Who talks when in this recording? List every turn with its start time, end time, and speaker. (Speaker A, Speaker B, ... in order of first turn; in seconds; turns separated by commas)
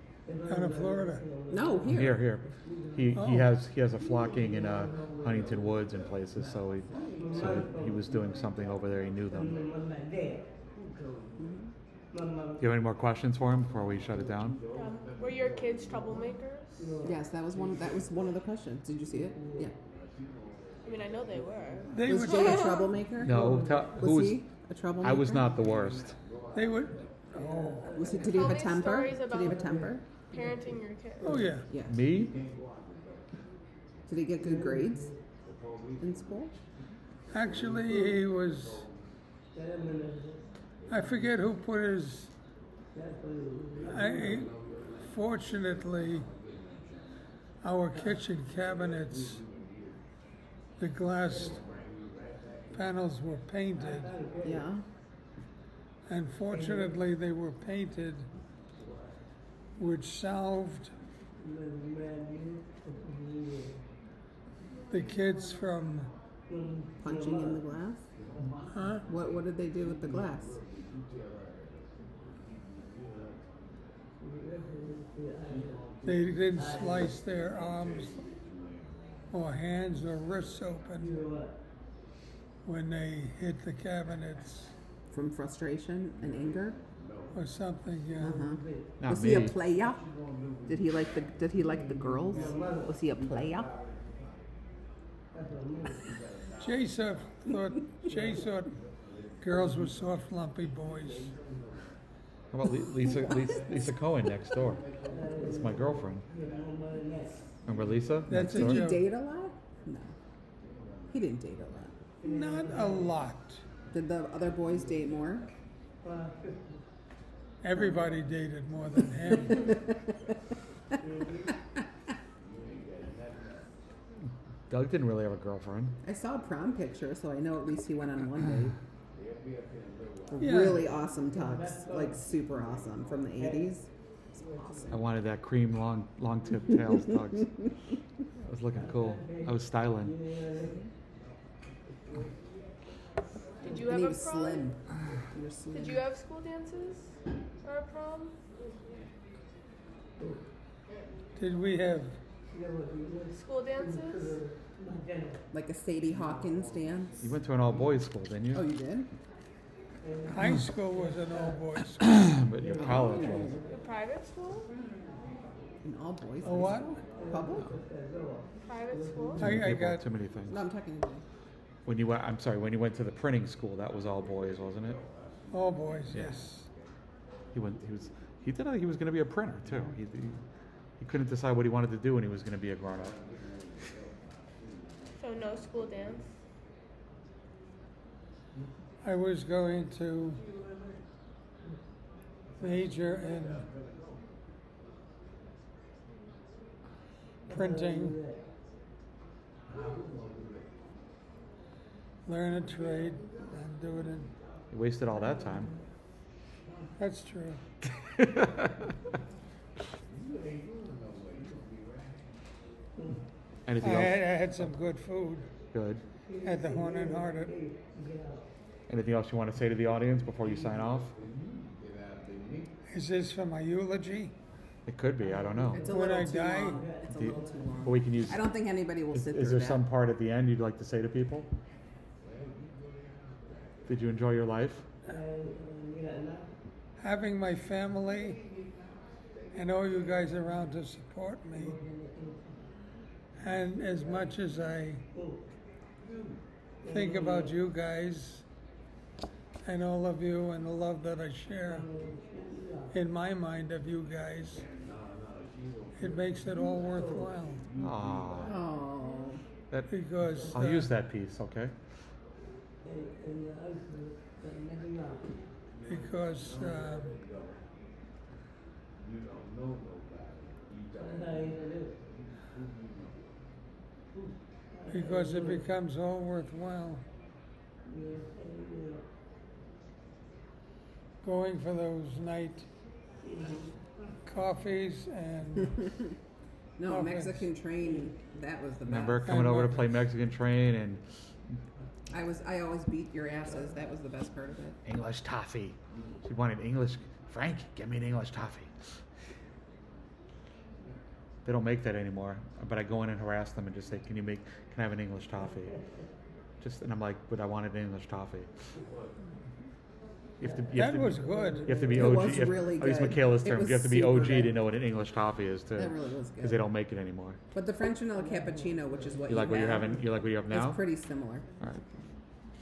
Speaker A: 0.5-1.2, Speaker B: 1.5-2.2, Speaker C: 1.9-9.5, Speaker A: 3.1-3.5, Speaker B: 11.4-11.7, Speaker C: 12.6-14.6, Speaker D: 14.7-16.9, Speaker B: 17.0-19.7, Speaker D: 20.8-22.8, Speaker A: 21.9-22.9, Speaker B: 22.0-25.4, Speaker C: 23.2-24.4, Speaker C: 25.0-26.1, Speaker A: 26.5-28.1, Speaker B: 27.9-30.0, Speaker D: 28.2-31.6, Speaker A: 31.2-31.6, Speaker C: 31.8-32.3, Speaker B: 34.1-35.1, Speaker B: 36.0-36.5, Speaker A: 37.3-38.9, Speaker A: 40.9-42.3, Speaker A: 43.9-46.3, Speaker A: 47.6-49.4, Speaker A: 50.8-51.6, Speaker A: 52.7-54.2, Speaker B: 54.4-54.8, Speaker A: 56.1-58.3, Speaker A: 59.8-60.9, Speaker A: 64.9-66.1, Speaker B: 67.0-68.1, Speaker A: 68.7-69.0, Speaker B: 69.1-70.6, Speaker A: 76.0-78.2, Speaker A: 79.3-81.1, Speaker A: 82.6-84.7, Speaker B: 85.1-86.8, Speaker A: 87.3-88.5, Speaker B: 88.2-90.0, Speaker C: 89.0-89.5, Speaker B: 90.7-93.7, Speaker A: 96.6-98.8, Speaker A: 99.4-101.3, Speaker C: 102.5-104.9, Speaker C: 105.4-106.2, Speaker C: 107.7-108.9, Speaker A: 108.3-109.0, Speaker B: 108.3-110.1, Speaker B: 111.1-111.9, Speaker A: 112.2-113.6, Speaker B: 113.9-115.5, Speaker A: 117.6-119.7, Speaker C: 124.7-125.9, Speaker B: 126.0-128.7, Speaker B: 130.3-135.0, Speaker A: 130.4-130.8, Speaker C: 134.9-137.5, Speaker C: 138.4-140.2, Speaker D: 143.6-144.6, Speaker B: 143.7-146.0, Speaker D: 145.7-148.3, Speaker A: 151.3-152.2, Speaker D: 153.3-154.4, Speaker B: 155.5-157.3, Speaker C: 157.2-158.6, Speaker B: 158.5-159.1, Speaker A: 160.3-162.1, Speaker C: 162.2-163.6, Speaker B: 162.7-163.6, Speaker D: 163.7-164.7, Speaker B: 165.8-167.7, Speaker A: 166.4-167.0, Speaker D: 168.7-169.5, Speaker A: 169.4-170.0, Speaker C: 169.4-170.6, Speaker B: 170.5-171.2, Speaker C: 171.8-175.0, Speaker A: 175.5-176.7, Speaker C: 176.1-176.4, Speaker C: 177.5-180.4, Speaker C: 181.0-183.2, Speaker D: 185.2-186.2, Speaker A: 189.0-190.4, Speaker A: 192.6-193.7, Speaker A: 197.5-198.2, Speaker A: 202.2-204.3, Speaker C: 204.7-205.7, Speaker A: 207.0-207.6, Speaker C: 213.7-214.7, Speaker A: 213.8-215.5, Speaker C: 215.7-216.0, Speaker A: 216.4-217.5, Speaker C: 218.9-221.1, Speaker A: 222.9-224.3, Speaker C: 224.8-225.9, Speaker B: 225.7-229.8, Speaker A: 225.8-226.8, Speaker C: 227.1-228.4, Speaker C: 229.1-231.5, Speaker C: 233.8-234.9, Speaker A: 237.0-238.4, Speaker A: 239.5-241.8, Speaker A: 243.4-245.0, Speaker A: 246.8-248.4, Speaker A: 249.6-251.9, Speaker A: 252.9-254.6, Speaker A: 256.0-257.6, Speaker C: 257.8-258.5, Speaker B: 258.4-259.4, Speaker C: 259.7-260.0, Speaker A: 259.9-260.9, Speaker C: 260.5-261.7, Speaker A: 265.9-267.1, Speaker A: 274.9-277.0, Speaker A: 281.2-282.6, Speaker A: 284.2-285.9, Speaker B: 286.8-289.3, Speaker A: 286.9-287.4, Speaker C: 288.9-291.2, Speaker A: 289.2-289.9, Speaker B: 292.1-294.8, Speaker C: 294.8-298.9, Speaker C: 301.4-305.7, Speaker C: 306.6-308.5, Speaker C: 310.4-317.4, Speaker A: 310.7-312.2, Speaker B: 311.9-314.6, Speaker B: 315.8-316.6, Speaker B: 317.5-321.4, Speaker C: 319.3-320.8